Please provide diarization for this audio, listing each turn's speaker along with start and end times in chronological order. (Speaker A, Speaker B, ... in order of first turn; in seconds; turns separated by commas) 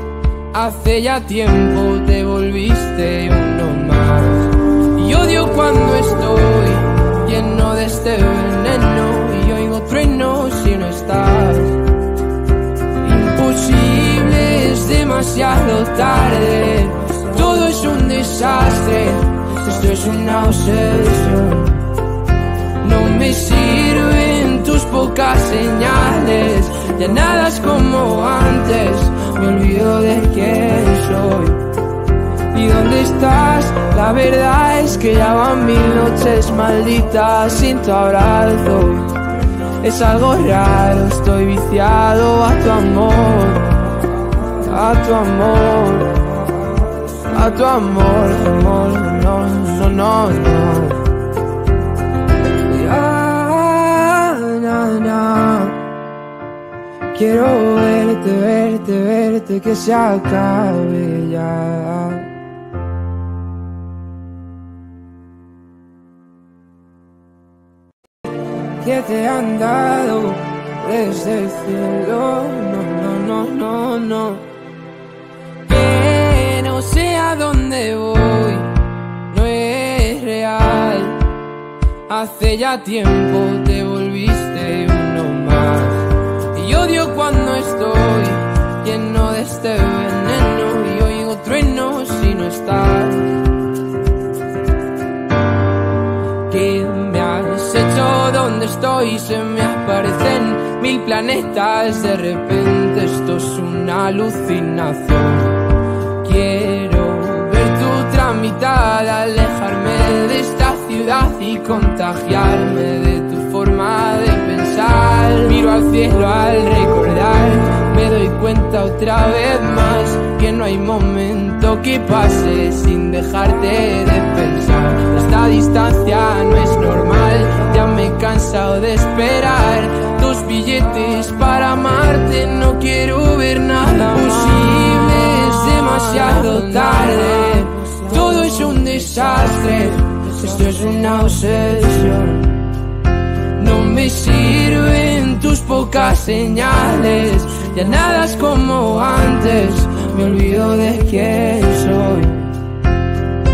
Speaker A: 0.5-11.8, Speaker A: 13.0-21.9, Speaker A: 22.8-31.6, Speaker A: 32.5-39.2, Speaker A: 39.8-43.7, Speaker A: 44.6-46.1, Speaker A: 47.3-51.0, Speaker A: 52.7-55.8, Speaker A: 57.1-62.3, Speaker A: 68.8-74.5, Speaker A: 75.7-78.8, Speaker A: 79.3-81.2, Speaker A: 82.1-93.4, Speaker A: 96.5-105.6, Speaker A: 106.2-142.6, Speaker A: 143.6-152.5